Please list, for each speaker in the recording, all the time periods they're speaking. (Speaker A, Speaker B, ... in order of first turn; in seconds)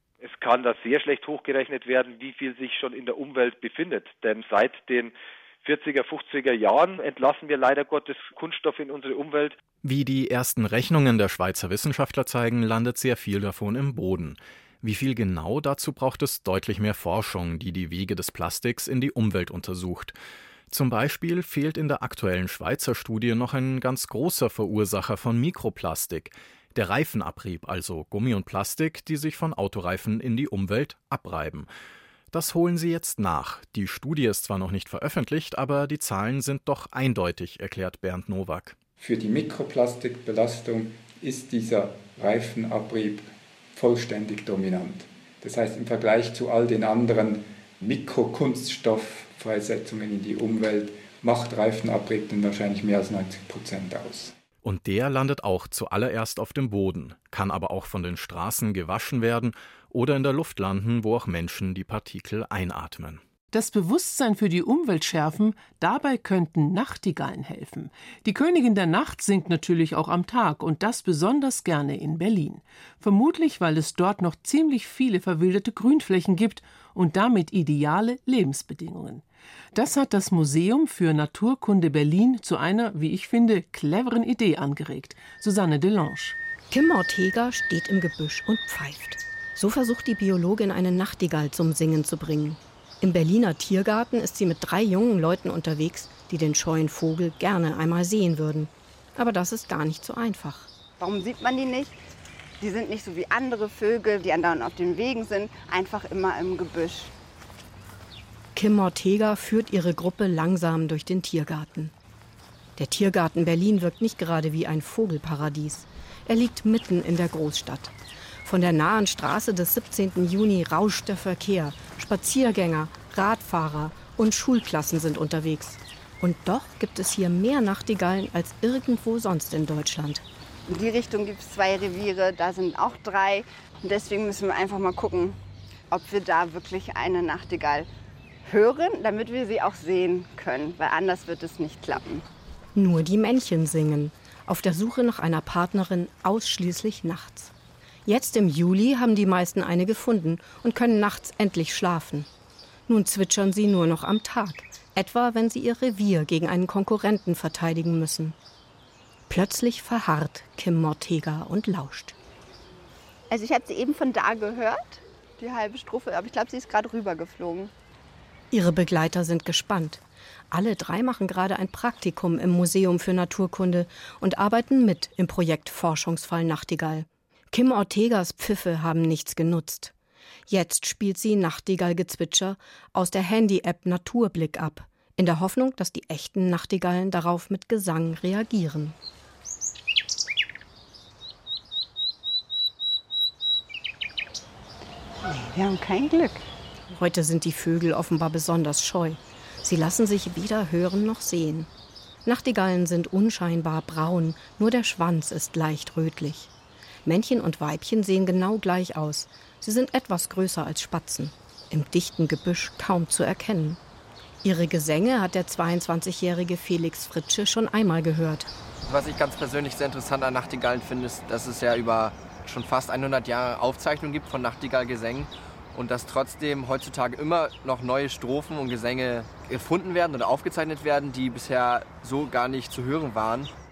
Speaker A: 0.2-5.1, 5.7-9.6
Speaker B: 9.8-20.2, 20.7-31.7, 32.3-38.8, 54.6-63.2
Speaker C: 39.0-54.3
Speaker D: 63.5-79.2, 79.8-86.4
Speaker E: 86.7-100.7, 108.6-111.9, 112.8-130.2, 142.8-147.5, 148.1-152.3, 152.9-158.4, 159.3-162.2, 168.5-179.9, 180.5-188.9, 196.9-201.7, 202.3-206.5, 207.1-213.8, 214.4-218.5
Speaker F: 101.0-101.9, 102.6-107.1, 130.7-135.3, 135.9-137.9, 138.5-142.2, 163.3-167.7, 195.3-196.4
Speaker G: 218.9-233.5